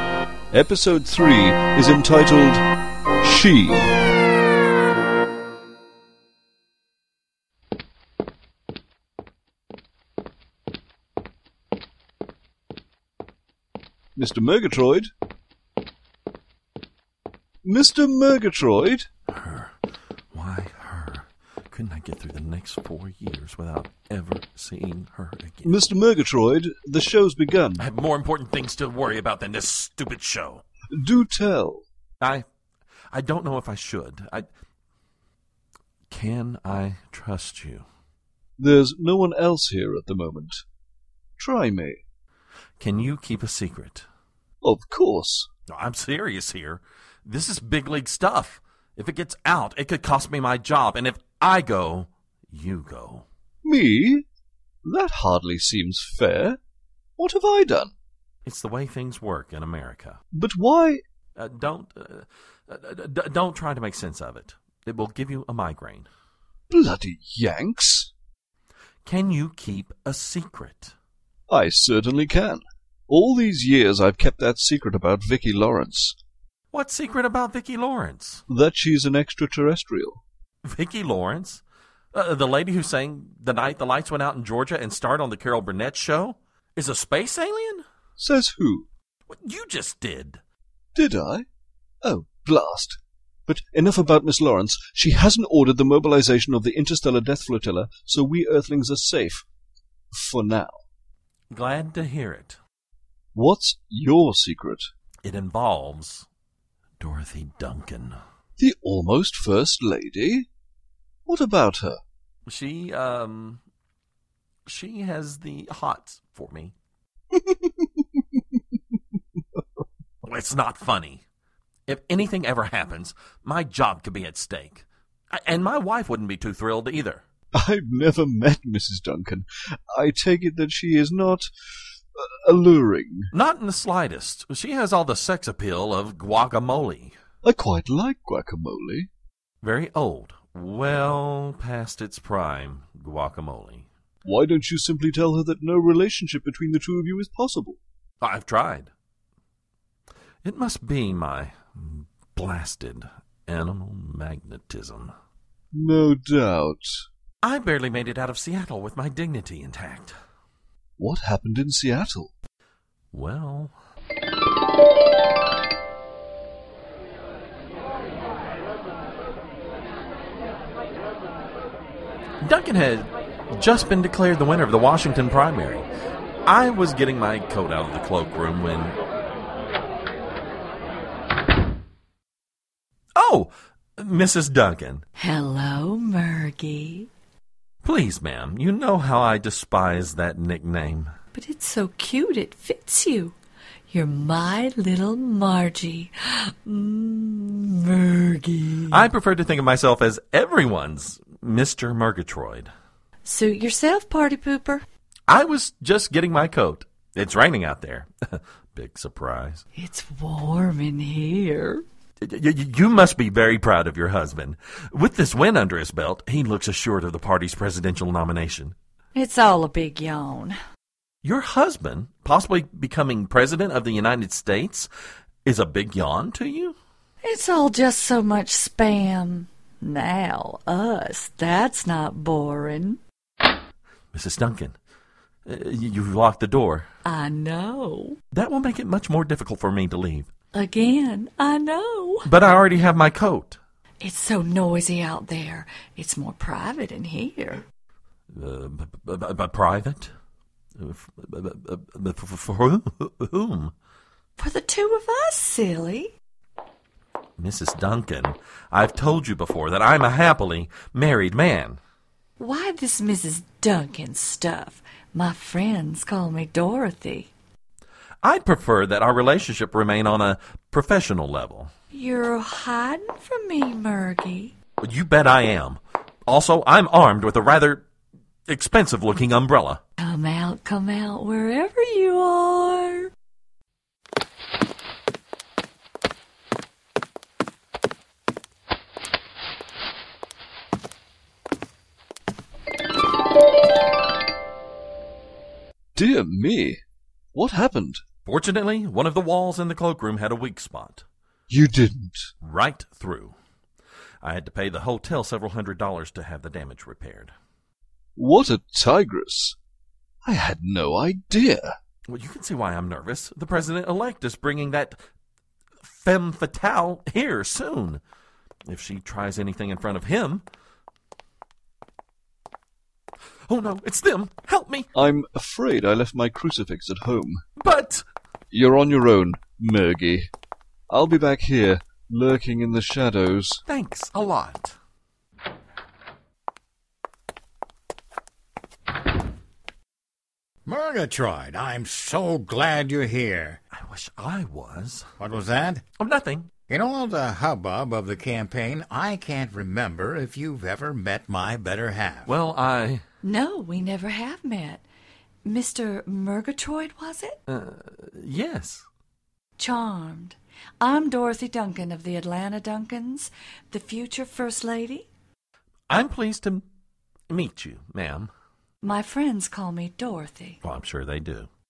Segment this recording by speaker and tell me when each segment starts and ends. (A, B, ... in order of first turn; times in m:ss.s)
0:00.5-0:02.6 A
0:03.2-0:03.9 A
0:14.2-0:15.1 A
0:17.6-0:19.1 A
0:19.3-0:19.7 B
0:20.3-0:25.7 B
0:25.6-0:27.8 A
0:27.8-0:30.6 B
0:30.9-0:31.8 A
0:33.1-0:34.5 B
0:36.1-0:37.8 B
0:38.6-0:40.6 A
0:41.4-0:42.0 A
0:42.8-0:44.1 B
0:44.6-0:45.5 A
0:45.7-0:53.3 B
0:53.6-0:54.2 A
0:54.8-0:56.6 A
0:57.2-0:57.9 A
0:58.4-1:00.2 B
1:00.3-1:01.0 A
1:01.4-1:06.1 B
1:06.7-1:08.1 A
1:09.0-1:10.9 B
1:11.5-1:16.2 A
1:16.7-1:18.4 B
1:18.5-1:20.2 A
1:20.6-1:27.8 B
1:28.2-1:28.9 A
1:29.3-1:30.4 B
1:31.0-1:31.5 A
1:32.0-1:39.4 A
1:40.1-1:40.8 A
1:41.5-1:42.6 B
1:43.3-1:44.9 A
1:45.2-1:46.3 B
1:47.0-1:48.2 B
1:48.6-1:50.5 A
1:51.3-1:52.0 A
1:52.5-1:53.6 B
1:54.7-1:56.7 B
1:57.4-1:57.7 A
2:00.2-2:01.2 B
2:01.9-2:07.2 B
2:07.5-2:11.5 A
2:12.2-2:13.3 A
2:13.3-2:17.2 B
2:17.4-2:19.1 A
2:19.6-2:23.9 B
2:24.2-2:27.8 A
2:28.2-2:28.9 B
2:30.4-2:35.1 B
2:35.7-2:37.0 A
2:37.4-2:40.1 B
2:41.0-2:42.3 A
2:43.1-2:43.7 B
2:52.4-2:55.9 B
2:56.5-2:59.0 B
3:03.2-3:05.0 B
3:05.2-3:07.1 C
3:07.8-3:11.1 B
3:11.3-3:13.4 C
3:13.9-3:19.1 C
3:18.9-3:22.7 B
3:23.2-3:24.8 C
3:25.3-3:29.6 B
3:29.8-3:31.8 C
3:32.2-3:38.8 B
3:39.1-3:40.6 C
3:41.2-3:44.9 B
3:45.4-3:46.8 B
3:47.2-3:53.0 C
3:54.1-3:54.8 B
3:55.5-3:56.9 B
3:57.0-3:58.2 C
3:58.3-4:00.3 B
4:00.5-4:02.3 C
4:02.2-4:03.6 B
4:04.0-4:07.7 C
4:08.3-4:10.1 B
4:10.8-4:13.7 B
4:14.4-4:16.2 C
4:17.4-4:21.8 B
4:22.4-4:27.3 C
4:28.2-4:31.7 B
4:31.9-4:34.6 C
4:34.8-4:37.9 B
4:38.5-4:39.8 B
4:40.0-4:43.1 C
4:56.0-4:56.8 A
4:57.3-4:58.0 A
4:58.2-5:01.0 B
5:01.5-5:02.3 A
5:02.4-5:03.4 B
5:04.2-5:07.3 B
5:08.2-5:09.6 A
5:10.2-5:11.7 A
5:12.1-5:15.0 B
5:15.8-5:18.0 B
5:18.7-5:20.4 B
5:23.5-5:24.9 B
5:25.0-5:27.4 A
5:27.6-5:28.0 B
5:28.5-5:30.3 A
5:30.9-5:33.6 A
5:33.7-5:34.8 B
5:40.7-5:43.6 D
5:43.7-5:45.1 B
5:45.2-5:45.8 D
5:46.0-5:46.5 B
5:46.7-5:52.3 D
5:52.3-5:53.0 B
5:53.2-5:54.8 C
5:55.4-5:57.4 C
5:57.5-5:58.8 B
5:59.6-6:05.1 C
6:05.9-6:06.6 B
6:07.3-6:08.3 B
6:08.8-6:10.6 C
6:10.6-6:11.5 B